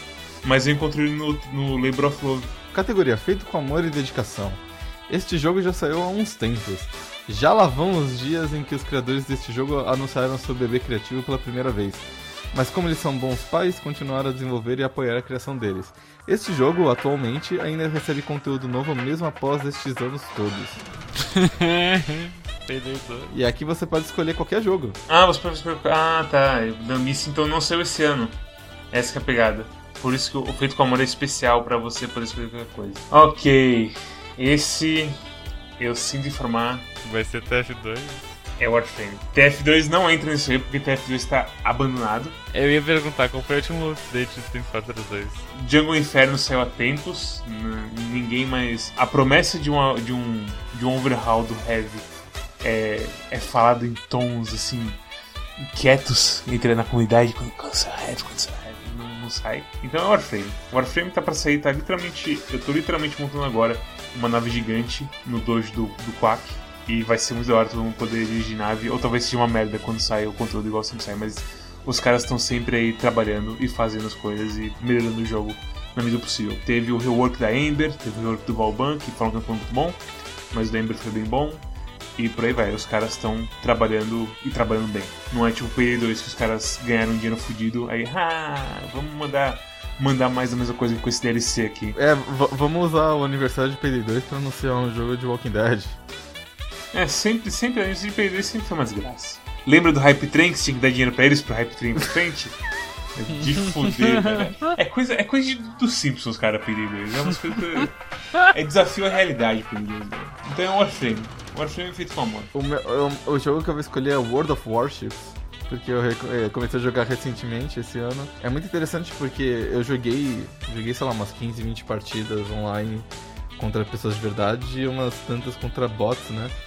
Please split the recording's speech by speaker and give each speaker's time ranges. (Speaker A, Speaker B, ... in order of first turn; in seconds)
Speaker A: 0.4-2.5, 25.1-28.4, 28.9-35.2, 35.8-36.9, 38.6-42.4, 45.5-52.1, 52.6-55.0, 55.6-80.0, 80.5-81.6, 82.2-92.0, 96.9-102.6, 103.2-108.0, 108.5-112.5
Speaker B: 2.7-20.8, 23.3-25.0, 92.0-96.0, 112.5-126.5
Speaker C: 21.2-23.3, 37.0-38.4, 42.5-45.4, 103.4-104.5